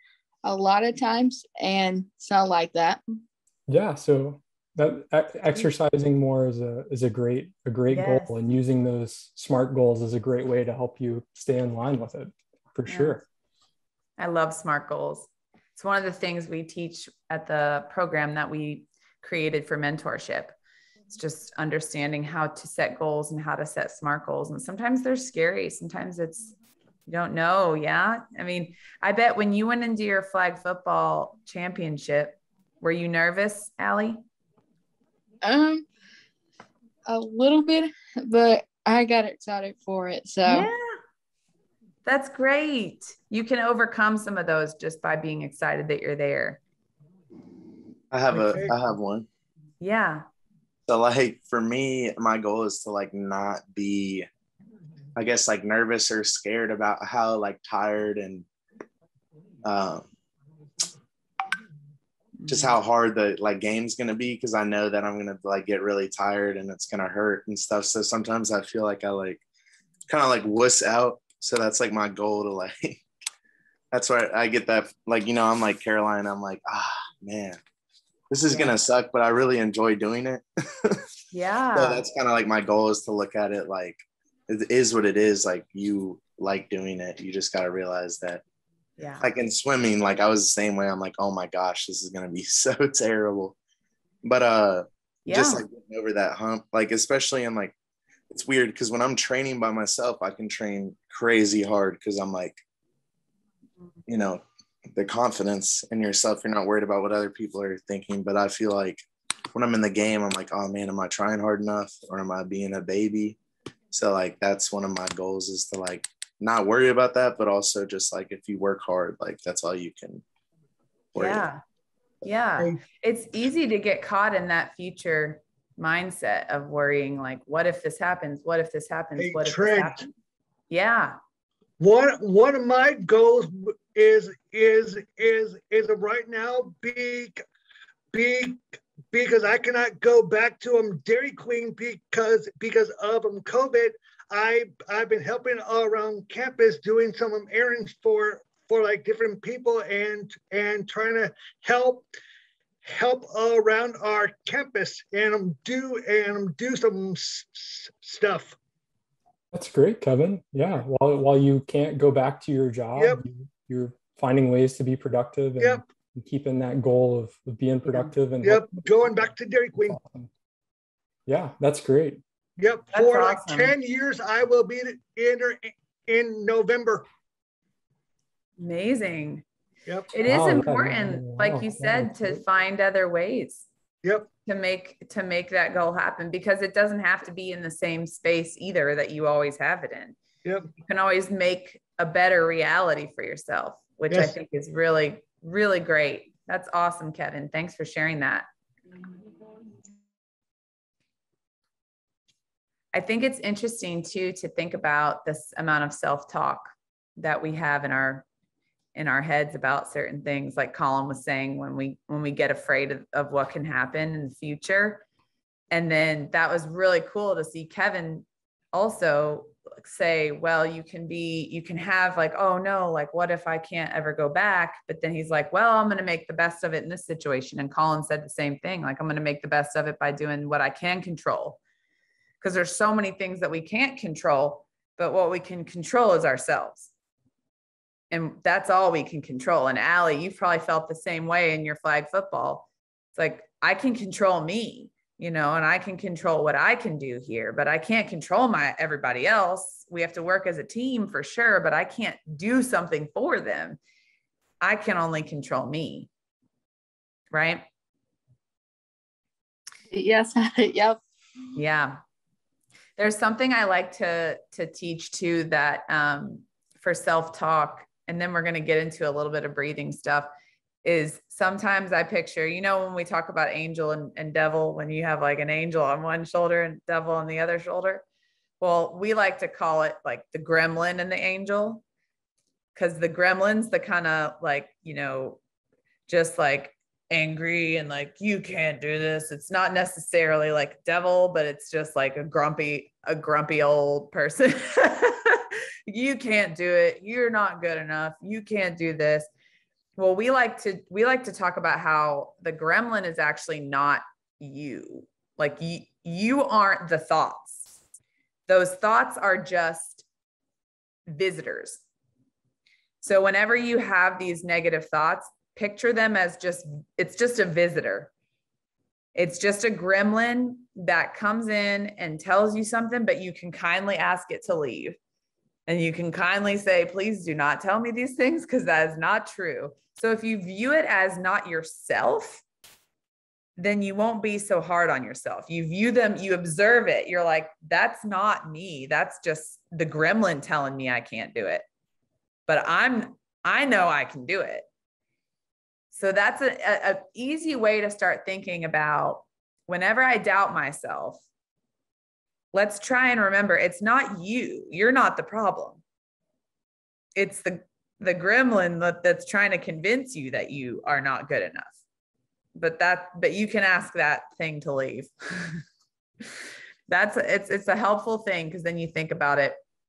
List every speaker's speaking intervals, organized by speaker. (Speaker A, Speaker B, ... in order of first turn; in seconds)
Speaker A: 0.4-3.0, 35.4-35.9, 37.0-40.7, 259.9-261.0
Speaker B: 3.7-13.2, 159.5-168.9, 169.9-170.3, 171.3-172.2, 180.2-182.4
Speaker C: 7.9-8.3, 12.9-13.2, 14.2-20.5, 21.1-26.5, 27.1-34.2, 40.4-41.0, 42.0-46.6, 49.8-50.2, 62.4-62.7, 78.5-78.7, 81.3-82.0, 89.0-89.3, 95.2-95.6, 121.2-121.6, 122.2-130.1, 130.7-131.2, 172.9-173.7, 178.6-179.4, 180.1-183.7, 184.4-190.2, 190.8-198.4, 202.9-208.2, 208.9-215.0, 215.7-231.6, 232.4-236.9, 238.1-253.8, 254.6-256.1, 257.3-257.6, 261.5-262.0, 263.0-270.3, 270.8-278.0, 278.6-281.8, 282.7-285.4, 286.1-299.3, 300.0-307.7, 308.5-310.0, 311.1-311.8, 313.0-318.1, 319.1-324.9, 325.7-332.4, 333.6-341.6, 342.5-344.7, 345.9-351.2, 352.5-355.8, 357.1-361.8, 362.6-365.6, 366.9-369.6
Speaker D: 48.1-49.3, 50.9-54.3, 55.1-58.5, 59.6-60.1, 62.5-69.4, 70.1-73.0, 73.9-77.6, 78.3-81.0, 81.8-88.4, 89.2-93.5, 94.2-97.7, 98.3-102.6, 104.1-104.4, 104.9-113.4, 113.9-120.2, 121.1-121.5
Speaker E: 129.2-130.0, 131.8-137.4, 138.1-152.1, 152.8-158.6, 162.9-163.2, 168.4-170.0, 172.6-177.1, 190.4-190.7